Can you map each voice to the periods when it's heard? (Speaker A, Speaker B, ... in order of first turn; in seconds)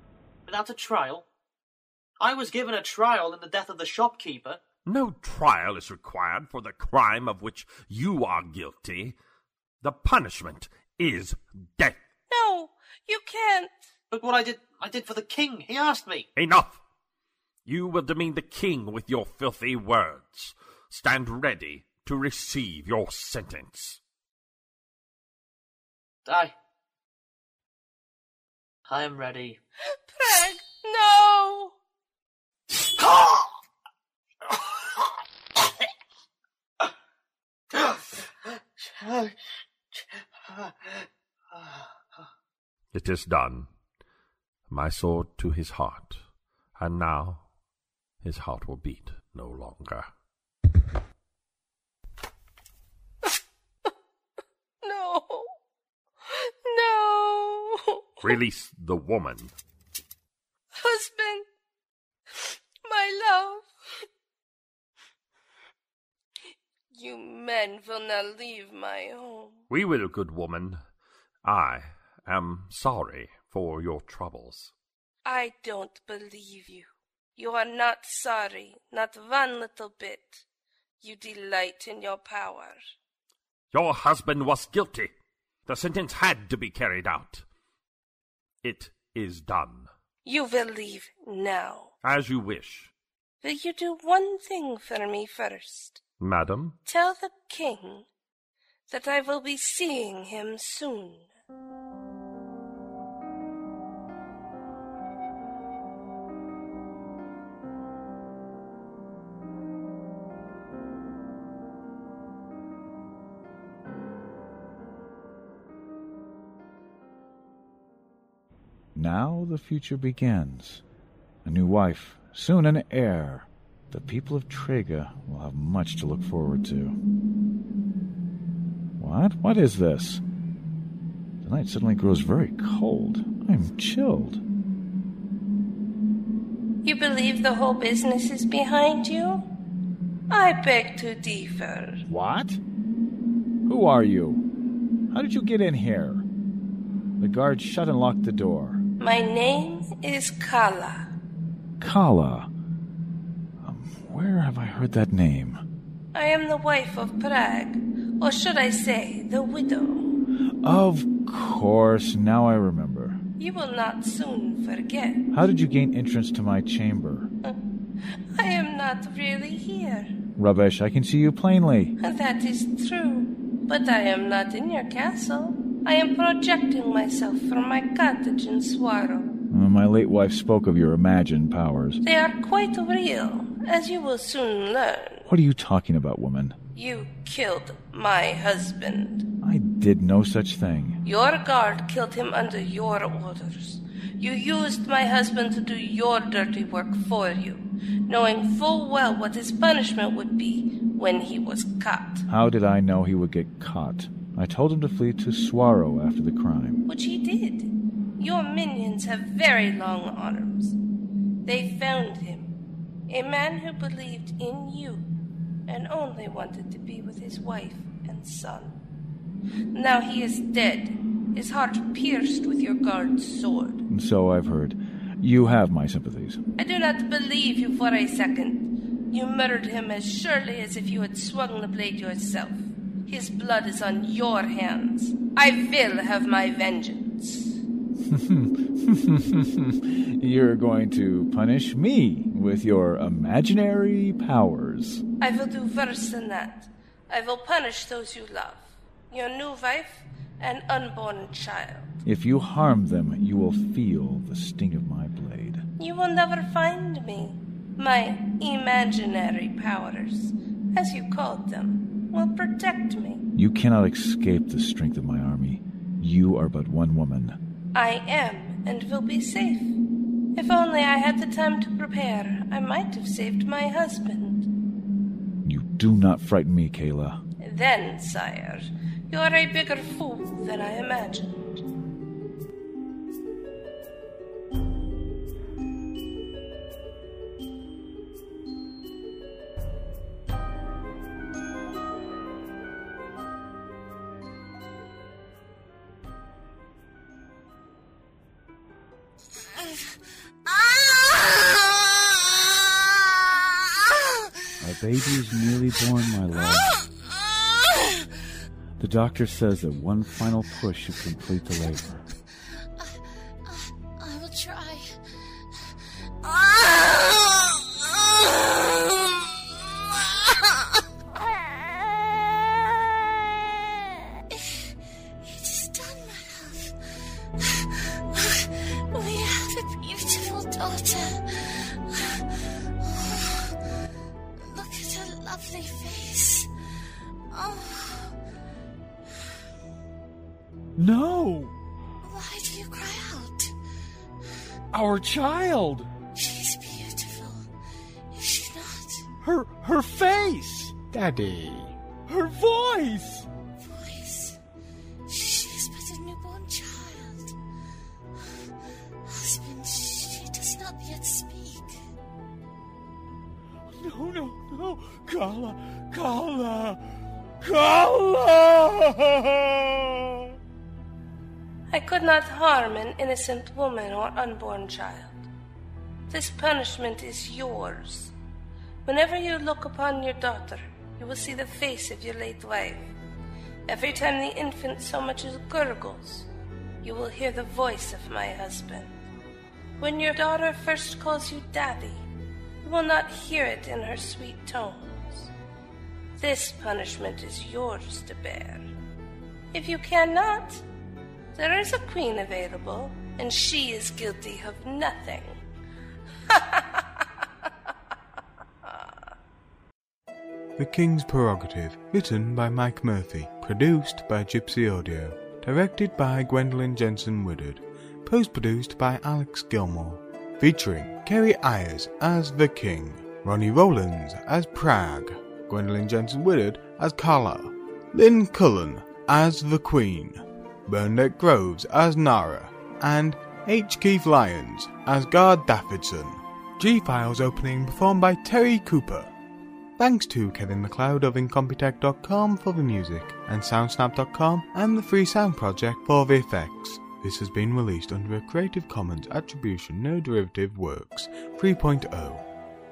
Speaker A: 0.5-1.2, 2.2-4.6, 14.1-16.3, 26.2-26.5, 28.9-29.6, 32.9-33.5, 37.7-39.3, 39.9-41.9
Speaker B: 4.8-9.2, 9.8-12.0, 16.4-16.8, 17.6-24.0, 42.9-43.7, 44.7-46.2, 46.8-47.4, 48.2-50.1, 58.2-59.5, 69.7-70.8, 71.4-74.7, 83.7-85.1, 85.7-87.4, 88.6-89.9, 92.0-92.9, 96.2-96.8
Speaker C: 12.3-13.8, 30.1-31.7, 54.8-55.5, 56.2-58.4, 60.8-61.4, 62.8-63.7, 66.9-69.6, 75.2-80.4, 81.0-82.8, 90.2-91.9, 93.4-96.0, 96.8-98.0, 98.9-101.3, 136.8-139.4, 140.3-142.0, 149.0-151.1, 156.1-160.2, 163.4-165.2, 168.3-170.1, 172.0-179.4, 182.0-185.3, 186.8-189.2, 191.0-202.2, 206.9-210.8, 211.4-212.5, 213.1-215.0, 215.7-218.7, 219.7-223.8, 226.6-237.6, 245.2-252.0, 255.8-263.2, 267.7-269.7, 270.4-274.5, 277.4-281.6, 371.7-375.3, 376.1-378.1, 378.9-382.9, 383.7-386.3, 386.8-388.9, 389.8-392.0, 392.6-395.3, 396.2-398.6, 399.5-400.6, 401.3-405.4, 406.3-407.0
Speaker D: 118.9-120.8, 121.4-127.0, 129.0-130.2, 131.4-134.4, 142.1-142.6, 143.7-144.4, 145.1-146.2, 147.2-148.8, 151.8-152.5, 153.6-155.6, 160.6-163.2, 165.3-167.3, 170.4-171.9, 179.5-182.0, 185.2-186.6, 189.4-191.0, 202.3-206.8, 223.9-226.4, 238.0-245.0, 252.0-255.6, 263.4-267.4, 275.4-277.2, 304.6-306.7, 308.8-312.1, 340.8-341.5, 344.7-345.9, 349.2-350.8, 352.1-353.3, 363.8-366.8, 367.4-370.2
Speaker E: 300.5-301.6, 312.8-314.9, 316.2-319.1, 319.9-320.6, 324.3-326.7, 327.4-333.5, 334.4-336.5, 337.3-338.1, 342.0-343.5, 346.1-347.5, 348.1-349.1, 353.6-354.4, 355.1-357.4, 359.0-361.8, 365.9-366.2
Speaker F: 350.9-351.7, 410.6-439.1, 439.8-452.2